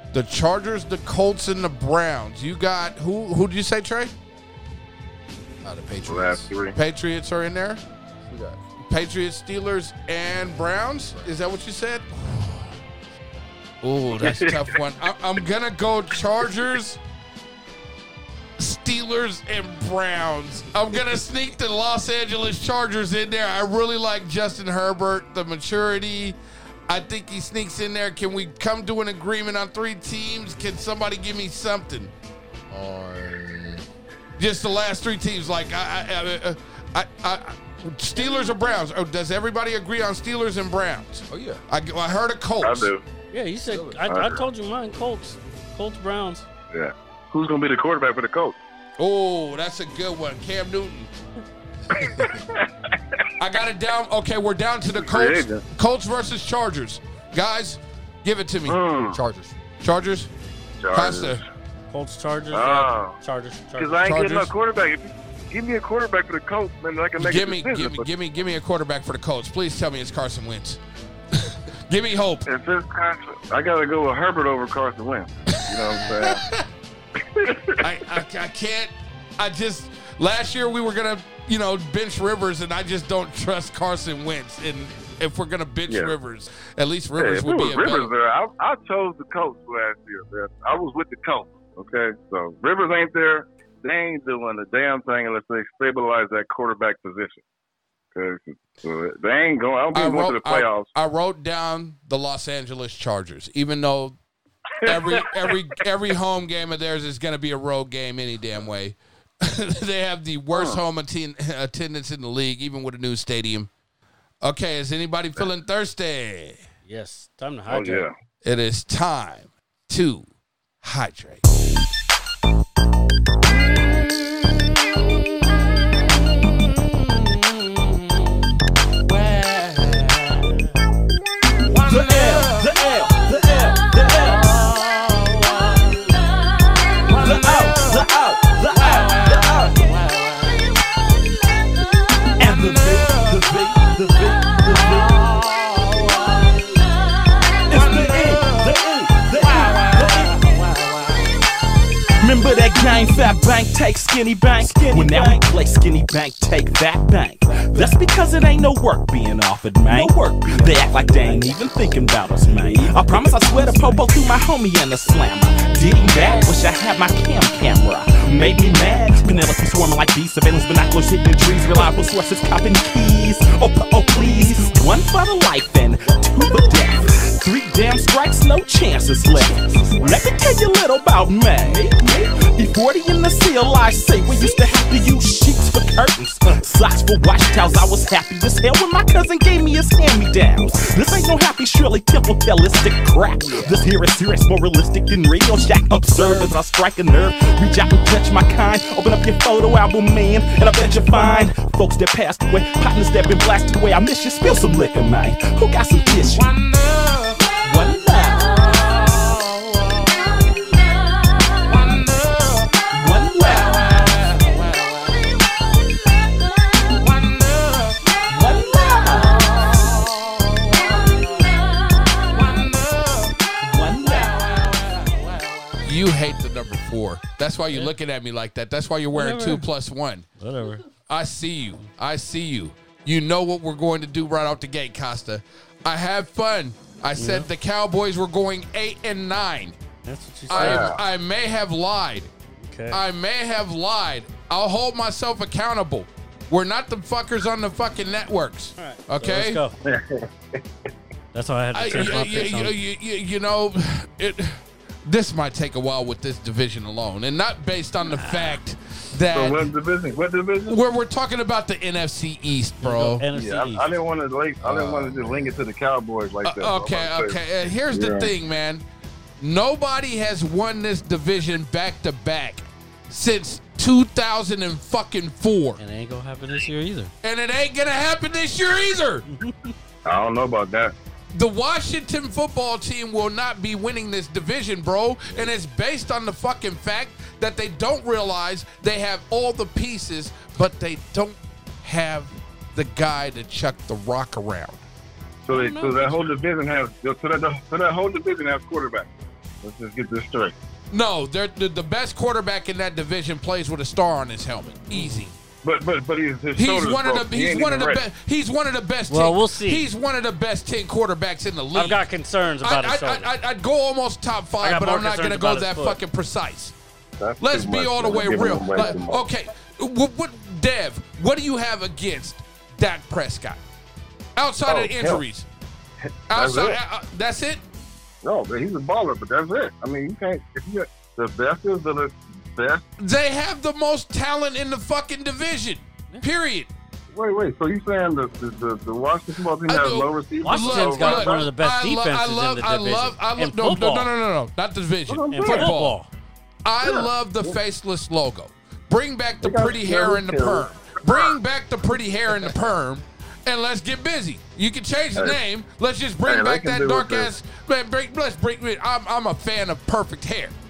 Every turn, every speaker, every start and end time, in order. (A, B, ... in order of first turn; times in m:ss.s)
0:00.1-0:04.1 A
0:05.6-0:06.5 B
0:06.0-0:06.8 C
0:06.7-0:07.8 A
0:08.2-0:08.6 B
0:08.9-0:12.6 A
0:11.1-0:11.4 B
0:13.8-0:17.0 A
0:14.2-0:14.6 C
0:18.6-0:26.4 A
0:26.9-0:32.1 A
0:32.7-0:33.8 B
0:34.4-0:42.9 A
0:41.3-0:41.6 B
0:42.6-0:43.0 C
0:43.3-0:46.4 D
0:43.7-0:44.0 B
0:44.1-0:44.4 C
0:46.7-0:48.6 C
0:49.0-0:51.1 A
0:51.9-0:53.2 C
0:53.4-0:58.8 A
0:54.9-0:55.6 C
0:58.7-0:59.2 C
0:59.0-0:59.6 B
0:59.8-1:00.3 A
1:00.8-1:01.4 C
1:00.9-1:01.4 A
1:01.9-1:04.0 D
1:02.5-1:03.2 C
1:03.8-1:08.1 C
1:04.0-1:04.5 A
1:07.2-1:10.8 A
1:11.4-1:12.4 A
1:12.4-1:16.4 C
1:15.5-1:16.6 A
1:17.2-1:17.8 C
1:17.8-1:28.1 A
1:25.9-1:26.1 C
1:27.2-1:37.4 C
1:38.1-1:40.9 C
1:39.9-1:44.2 A
1:44.8-1:45.5 C
1:44.8-1:53.7 A
1:50.5-1:50.8 C
1:54.4-1:56.6 A
1:56.8-1:58.0 D
1:57.7-1:58.1 C
1:58.4-2:00.3 A
2:00.8-2:01.4 A
2:09.7-2:10.0 E
2:11.7-2:14.7 E
2:17.1-2:20.0 E
2:22.4-2:26.5 E
2:27.7-2:30.5 E
2:32.2-3:29.3 E
3:31.7-3:34.7 E
3:37.0-3:40.9 E
3:42.3-3:45.1 E
3:45.8-3:50.2 A
3:49.1-3:49.7 D
3:50.4-3:50.8 D
3:51.1-3:59.8 A
3:57.2-3:57.5 D
4:00.0-4:00.9 D
4:00.5-4:02.3 A
4:00.5-4:01.0 C
4:02.6-4:03.0 D
4:02.9-4:09.6 A
4:08.8-4:09.7 D
4:09.8-4:10.6 C
4:11.3-4:12.7 D
4:11.7-4:19.7 A
4:18.0-4:18.6 D
4:19.3-4:20.8 C
4:20.7-4:23.2 A
4:22.8-4:23.9 D
4:23.3-4:27.4 C
4:24.6-4:25.7 B
4:26.4-4:28.8 A
4:27.9-4:28.3 C
4:29.4-4:35.8 A
4:35.8-4:37.1 D
4:37.2-4:39.3 A
4:39.3-4:39.7 D
4:40.0-4:40.9 C
4:41.3-4:54.8 A
4:55.5-4:59.1 C
4:55.5-4:56.3 D
4:59.6-5:00.5 C
5:00.9-5:05.3 A
5:04.9-5:05.3 D
5:05.6-5:08.0 C
5:06.6-5:12.0 A
5:09.1-5:09.9 D
5:11.7-5:13.3 D
5:12.6-5:16.7 A
5:14.6-5:16.0 D
5:17.2-5:19.2 C
5:17.4-5:23.6 A
5:24.4-5:25.4 A
5:24.6-5:25.2 C
5:26.3-5:27.6 A
5:26.3-5:26.8 C
5:28.2-5:32.8 C
5:33.0-5:36.7 A
5:37.1-5:41.4 C
5:39.7-5:46.0 A
5:40.4-5:44.1 D
5:45.1-5:45.7 C
5:45.3-5:46.1 D
5:46.6-6:00.5 A
5:46.8-5:47.6 C
5:49.4-5:51.3 C
5:56.2-5:57.3 C